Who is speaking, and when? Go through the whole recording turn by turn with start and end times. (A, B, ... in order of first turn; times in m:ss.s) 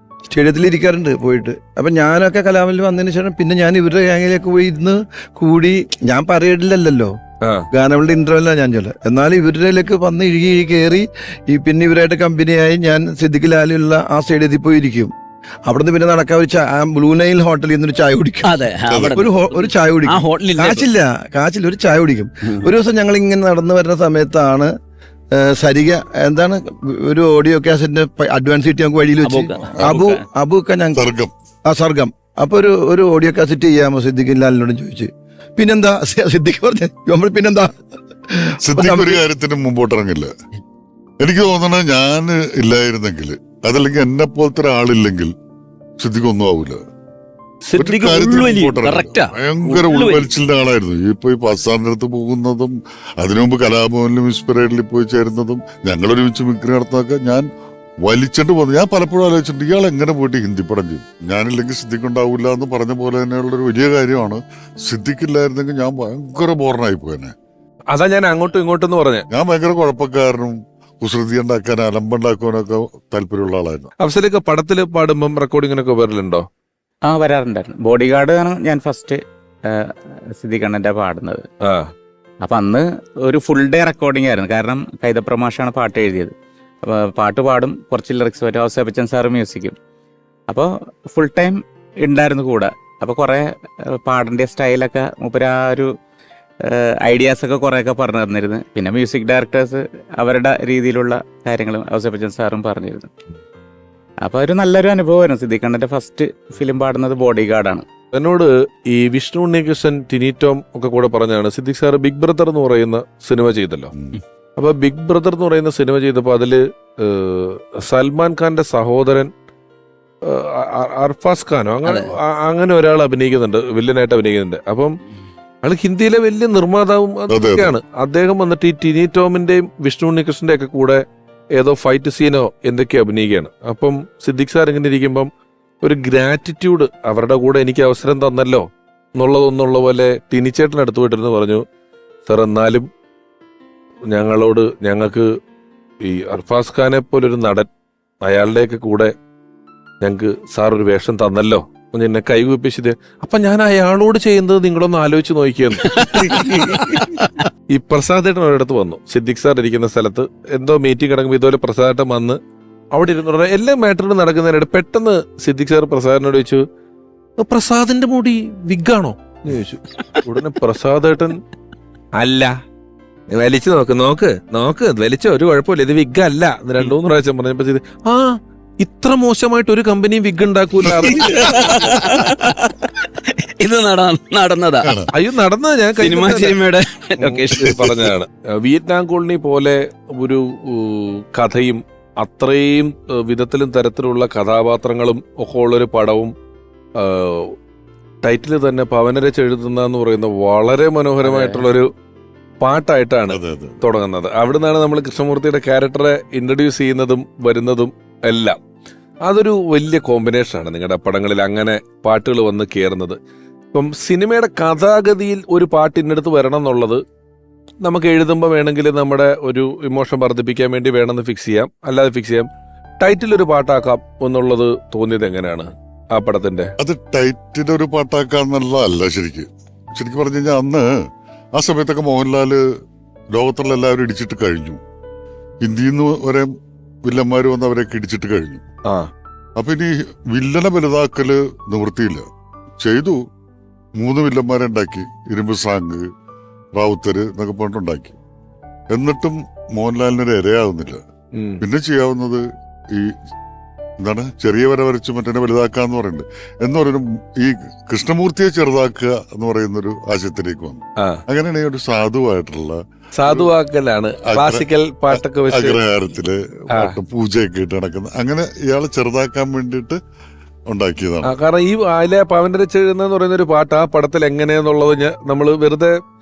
0:00.3-0:07.1 A
0:07.7-0:15.1 A
0:15.7-0:24.7 A
0:18.4-0:20.9 B
0:25.3-0:31.0 A
0:29.2-0:29.6 B
0:29.7-0:30.0 C
0:30.9-0:31.3 C
0:31.7-0:37.8 A
0:38.3-0:39.2 A
0:38.6-0:40.3 C
0:41.2-0:45.3 C
0:46.0-0:46.8 C
0:47.6-0:50.3 B
0:47.8-0:57.4 C
0:58.0-1:07.3 C
1:07.9-1:09.2 D
1:09.3-1:13.9 C
1:14.0-1:16.4 D
1:17.0-1:19.2 E
1:19.7-1:21.4 E
1:21.6-1:21.9 D
1:22.4-1:26.3 E
1:26.8-1:29.7 E
1:30.5-1:33.5 E
1:34.0-1:35.9 E
1:36.7-1:43.1 E
1:44.2-1:47.8 E
1:48.1-1:53.9 D
1:54.6-1:59.3 D
2:00.2-2:05.0 D
2:01.8-2:02.1 B
2:05.6-2:11.0 D
2:07.3-2:07.8 C
2:11.5-2:15.3 D
2:15.8-2:21.6 D
2:22.2-2:22.8 D
2:24.1-2:25.3 D
2:26.0-2:27.7 D
2:28.2-2:29.1 D
2:30.0-2:37.0 D
2:36.0-2:37.2 B
2:37.7-2:42.4 D
2:42.9-2:46.6 D
2:47.4-2:51.4 D
2:52.2-2:52.5 D
2:53.3-3:01.9 D
3:00.8-3:04.9 B
3:05.1-3:06.6 D
3:06.0-3:08.0 B
3:07.2-3:16.3 D
3:07.6-3:07.9 C
3:17.0-3:17.5 D
3:18.2-3:21.9 D
3:21.2-3:21.6 E
3:22.6-3:28.6 D
3:23.3-3:23.8 C
3:29.2-3:33.2 D
3:33.7-3:37.0 D
3:37.8-3:42.5 D
3:43.0-3:46.7 D
3:46.8-3:51.0 C
3:51.5-3:52.6 C
3:53.3-3:54.8 C
3:55.6-3:56.5 C
3:57.0-3:58.6 C
3:59.6-4:02.2 C
4:02.8-4:03.2 C
4:04.0-4:06.0 C
4:06.8-4:08.2 C
4:08.9-4:11.0 C
4:11.3-4:11.6 D
4:11.6-4:13.1 C
4:14.0-4:22.8 C
4:23.2-4:25.8 D
4:24.2-4:30.0 C
4:30.7-4:31.3 C
4:31.2-4:36.0 D